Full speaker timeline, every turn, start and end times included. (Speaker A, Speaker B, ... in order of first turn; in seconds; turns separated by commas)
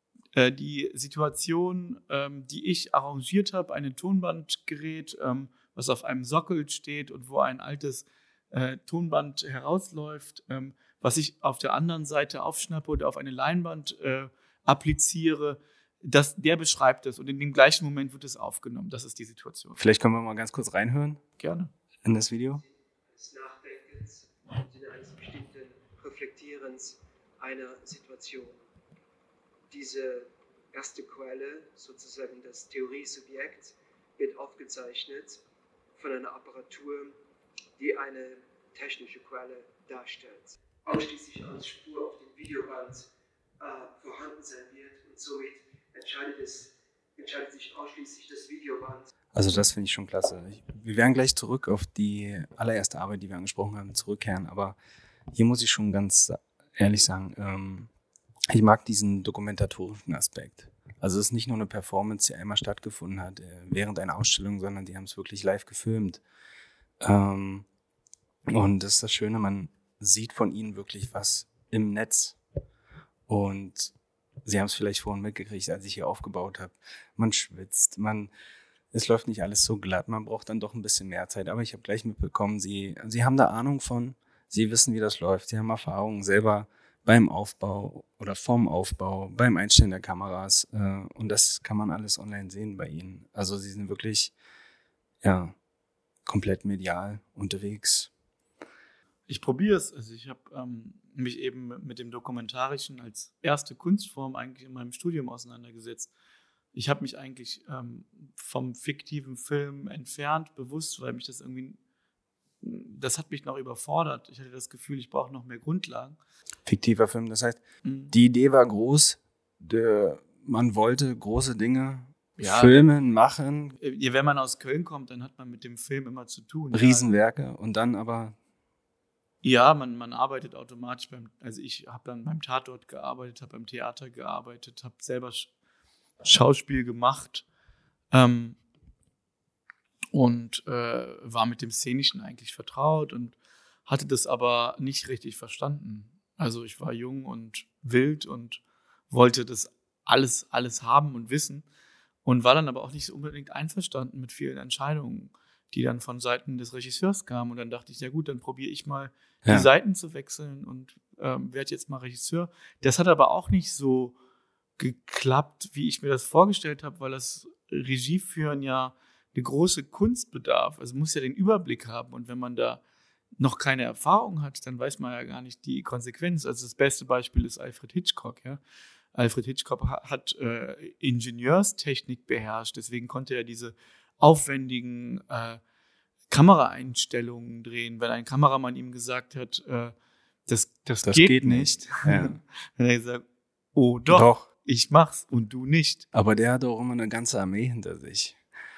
Speaker A: 0.3-19.8, Speaker B: 19.8-21.2, Speaker A: 21.4-21.7, Speaker B: 22.0-22.6, Speaker C: 23.1-28.6, Speaker C: 29.7-35.4, Speaker C: 36.0-37.2, Speaker C: 37.8-43.0, Speaker C: 43.6-49.1, Speaker B: 49.3-54.8, Speaker B: 55.3-57.9, Speaker B: 58.5-66.2, Speaker B: 67.0-67.7, Speaker B: 68.5-72.4, Speaker B: 73.3-73.9, Speaker B: 74.5-78.3, Speaker B: 78.9-94.3, Speaker B: 95.2-95.6, Speaker B: 96.3-98.1, Speaker A: 99.3-106.1, Speaker A: 106.7-111.8, Speaker A: 112.6-116.2, Speaker B: 116.7-123.8, Speaker A: 117.8-118.1, Speaker A: 122.4-122.9, Speaker A: 123.8-127.1, Speaker B: 126.7-128.4, Speaker A: 129.4-135.5, Speaker A: 136.2-137.5, Speaker A: 138.1-138.6, Speaker A: 140.1-143.3, Speaker A: 143.9-151.7, Speaker A: 152.2-164.2, Speaker A: 164.8-172.8, Speaker A: 173.4-178.6, Speaker A: 179.1-185.6, Speaker A: 186.3-189.9, Speaker A: 190.5-196.1, Speaker B: 191.0-192.4, Speaker B: 194.1-194.5, Speaker B: 196.1-198.4